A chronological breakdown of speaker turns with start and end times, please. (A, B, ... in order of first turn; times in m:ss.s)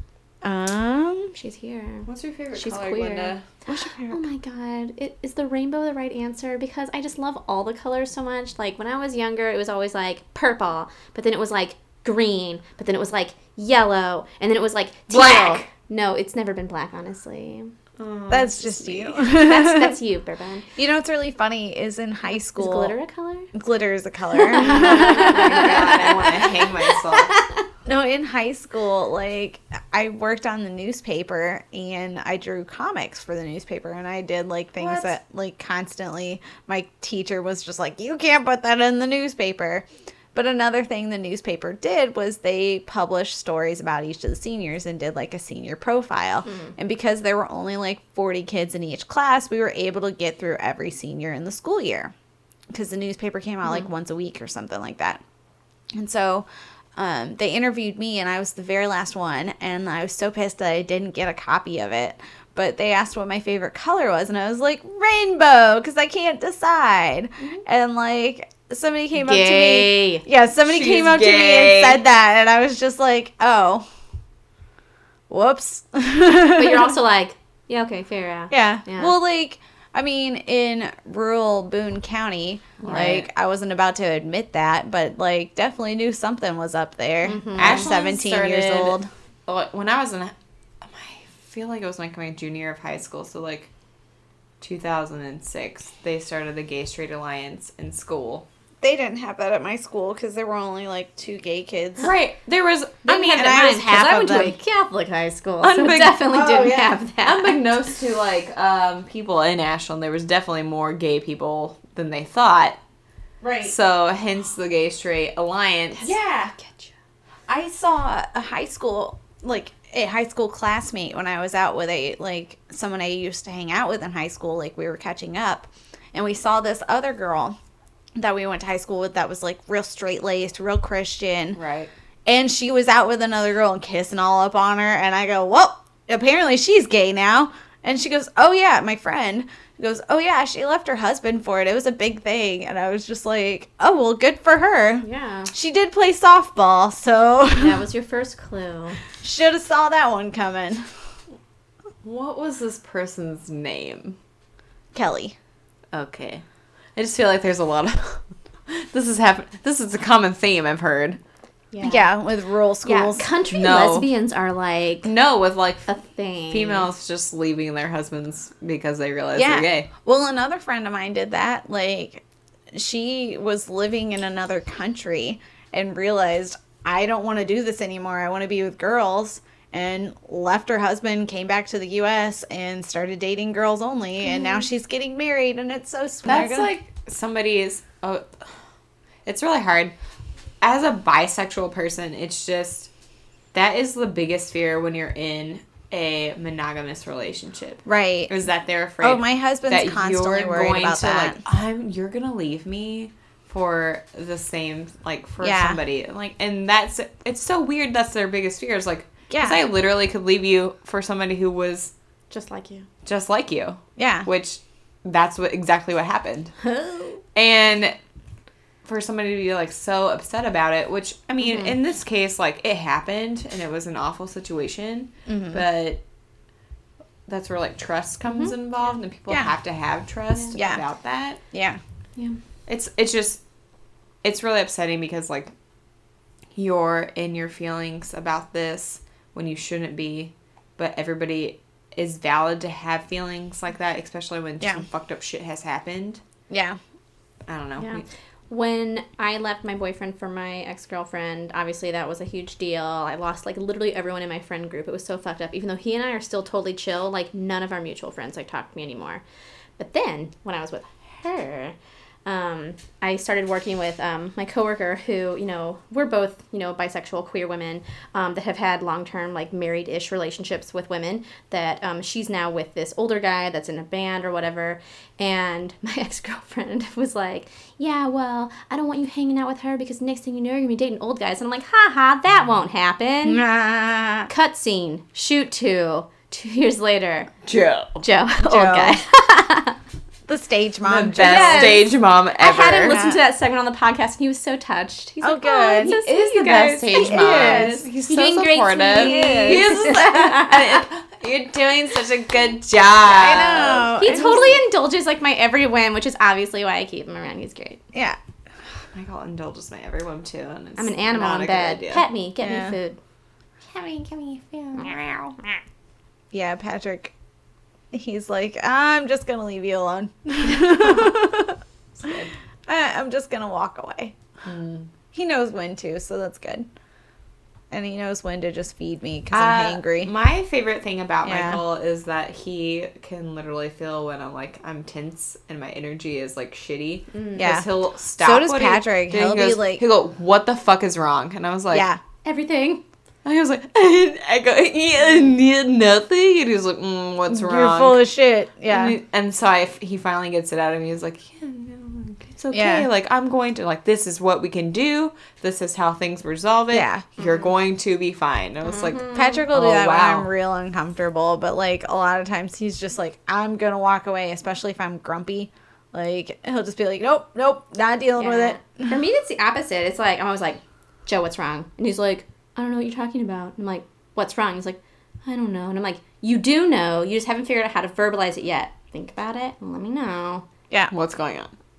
0:00.4-0:01.3 A
0:01.3-0:03.4 B
0:02.0-0:03.4 C
0:03.6-0:04.2 A
0:04.1-0:17.7 B
0:15.1-0:15.7 C
0:18.0-0:19.1 C
0:18.3-0:20.0 A
0:19.0-0:20.7 B
0:20.8-0:22.9 A
0:22.4-0:23.5 B
0:23.5-0:26.1 A
0:24.3-0:27.6 B
0:24.6-0:27.4 C
0:27.8-0:52.1 A
0:34.8-0:35.1 C
0:46.4-0:46.7 B
0:52.7-0:55.2 A
0:55.9-1:13.8 A
1:09.1-1:10.2 B
1:10.6-1:12.0 C
1:15.3-1:17.0 A
1:16.5-1:19.1 B
1:18.5-1:29.1 A
1:22.8-1:23.3 C
1:27.2-1:27.9 B
1:27.6-1:33.7 C
1:34.6-1:38.4 C
1:38.8-1:42.1 A
1:42.0-1:43.6 C
1:43.1-1:47.6 B
1:43.1-1:44.6 A
1:45.6-1:46.3 C
1:46.3-1:47.0 A
1:47.2-1:52.8 C
1:53.4-1:53.7 A
1:53.6-1:56.9 C
1:56.0-1:56.5 A
1:57.5-2:07.6 A
2:08.2-2:11.6 A
2:11.5-2:11.9 C
2:12.2-2:27.8 A
2:25.0-2:25.5 B
2:27.5-2:29.0 B
2:29.2-2:30.8 A
2:32.0-2:34.2 C
2:34.9-2:35.4 A
2:35.9-2:36.4 C
2:37.0-2:41.2 C
2:41.7-2:42.1 B
2:41.8-2:43.2 A
2:42.8-2:45.1 B
2:43.5-2:44.1 C
2:45.0-2:45.9 C
2:45.9-2:46.9 B
2:46.5-2:49.9 C
2:49.3-3:06.7 A
3:04.2-3:04.6 B
3:06.2-3:08.4 C
3:09.2-3:09.9 C
3:10.6-3:12.9 C
3:13.5-3:31.9 C
3:17.8-3:18.3 A
3:19.0-3:21.4 A
3:25.4-3:25.8 A
3:29.3-3:29.6 A
3:32.3-3:32.9 B
3:33.0-3:36.5 C
3:34.0-3:34.3 A
3:36.6-3:37.2 B
3:37.3-3:37.9 C
3:38.8-3:46.0 C
3:41.4-3:41.8 B
3:45.3-3:45.6 A
3:47.3-3:51.4 C
3:48.3-3:48.5 B
3:50.5-3:50.8 A
3:51.5-3:51.8 A
3:52.7-3:53.4 C
3:54.2-3:55.5 C
3:56.5-4:06.2 C
4:06.5-4:06.8 A
4:07.5-4:08.0 C
4:07.8-4:19.2 B
4:19.8-4:21.7 B
4:22.2-4:43.4 B
4:43.2-4:44.3 A
4:44.3-4:47.3 B
4:47.4-4:48.0 C
4:48.0-4:49.8 B
4:48.4-4:49.0 A
4:50.3-4:51.8 A
4:50.8-4:53.0 C
4:51.2-5:00.8 B
4:52.8-4:53.2 A
4:55.2-4:56.0 A
4:55.8-5:04.1 C
4:56.9-4:57.8 A
4:58.9-5:00.1 A
5:03.0-5:04.6 A
5:03.9-5:07.8 B
5:07.9-5:08.2 A
5:08.9-5:12.0 C
5:10.8-5:13.0 B
5:12.4-5:12.8 A
5:13.6-5:15.4 C
5:16.3-5:17.1 A
5:17.9-5:21.6 A
5:22.0-5:22.3 C
5:22.7-5:24.1 A
5:24.4-5:24.9 C
5:25.1-5:26.7 A
5:27.7-5:30.1 A
5:29.3-5:41.9 C
5:31.2-5:31.6 A
5:37.1-5:37.5 B
5:37.4-5:37.6 A
5:38.2-5:39.8 A
5:41.7-5:42.0 A
5:42.2-5:42.8 B
5:43.2-5:48.0 C
5:47.3-5:49.0 A
5:48.7-6:00.3 C
5:52.5-5:52.9 A
5:56.7-5:57.1 A
5:57.2-5:57.4 B
5:58.6-5:59.4 B
5:59.1-6:09.0 A
6:08.2-6:20.4 B
6:20.9-6:21.5 C